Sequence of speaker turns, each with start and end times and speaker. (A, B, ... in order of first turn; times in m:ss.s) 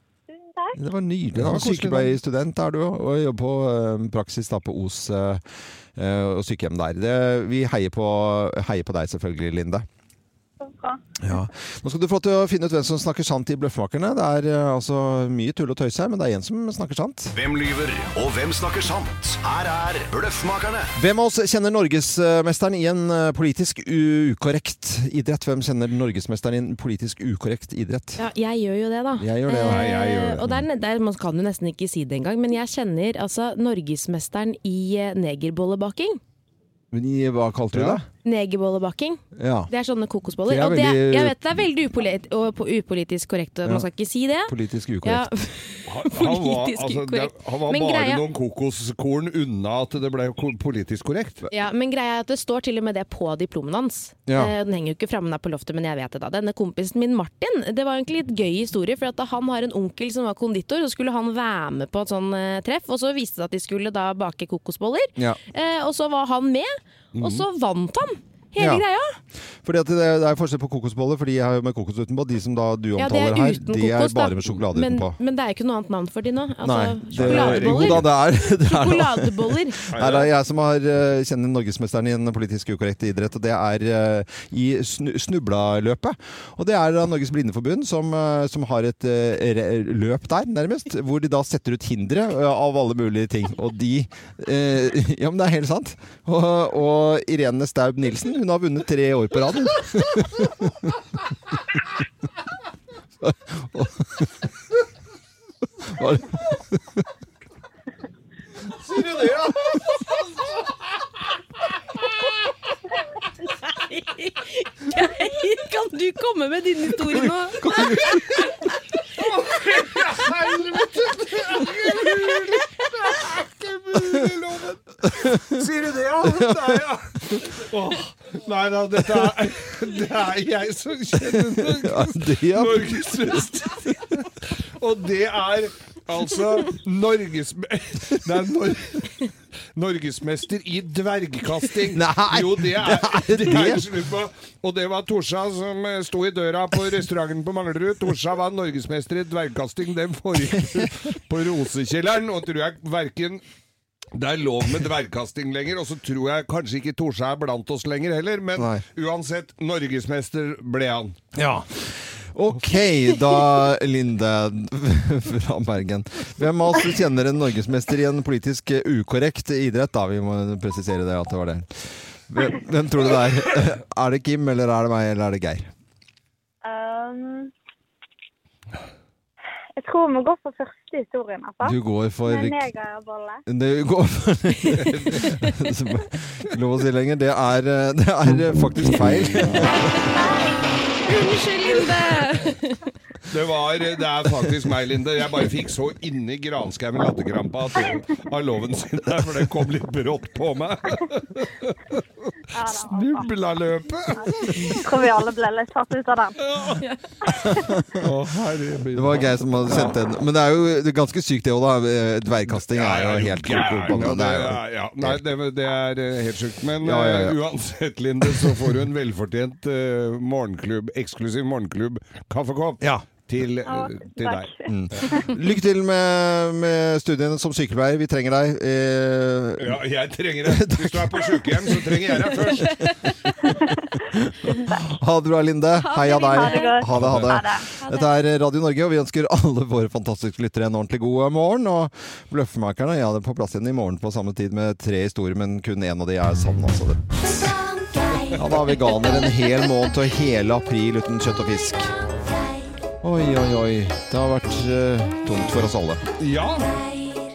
0:00.3-0:00.8 A
0:00.8-0:05.4 B
0:01.4-0:02.1 C
0:06.0-0:09.9 B
0:10.6-0:11.0 A
0:11.2-0:17.3 B
0:17.3-0:20.9 D
0:21.0-0:28.2 B
0:28.2-0:36.2 E
0:29.2-0:29.9 B
0:29.7-0:30.5 C
0:36.9-0:38.0 B
0:37.7-0:38.0 C
0:38.2-0:44.5 E
0:39.4-0:39.7 B
0:40.5-0:41.7 B
0:44.5-0:45.3 B
0:45.0-0:48.2 E
0:45.9-0:51.4 C
0:51.5-1:09.2 E
0:54.3-0:54.5 B
1:07.2-1:07.4 C
1:08.6-1:08.8 B
1:09.6-1:15.2 B
1:13.0-1:19.8 E
1:16.6-1:41.0 B
1:17.2-1:18.1 C
1:19.9-1:20.3 C
1:43.2-1:44.3 B
1:45.8-1:47.0 B
1:48.8-1:50.1 C
1:53.8-1:58.6 E
1:57.1-1:58.5 B
1:59.2-2:33.4 C
2:05.1-2:05.7 B
2:06.2-2:07.4 B
2:11.3-2:13.0 B
2:21.9-2:23.9 B
2:30.5-2:30.9 B
2:34.2-2:41.2 C
2:38.6-2:38.8 B
2:41.3-2:55.7 B
2:56.6-2:57.5 A
2:59.8-3:03.4 A
3:01.6-3:02.6 B
3:03.5-3:10.0 B
3:04.8-3:05.4 C
3:08.9-3:09.7 C
3:11.1-3:12.8 E
3:13.3-3:21.8 C
3:22.5-3:23.4 A
3:22.9-3:24.8 C
3:24.3-3:26.4 A
3:26.4-3:26.8 C
3:27.4-3:28.1 B
3:28.0-3:30.0 C
3:28.9-3:35.2 B
3:32.6-3:45.1 C
3:36.8-3:37.4 B
3:38.2-3:38.7 B
3:43.6-3:45.2 A
3:44.7-3:49.8 B
3:49.6-3:52.7 C
3:50.4-3:52.8 B
3:54.5-4:07.4 B
3:55.9-3:56.8 E
3:55.9-3:57.6 A
3:56.9-3:57.4 C
4:08.3-4:12.0 B
4:13.0-4:16.0 B
4:16.2-4:16.7 C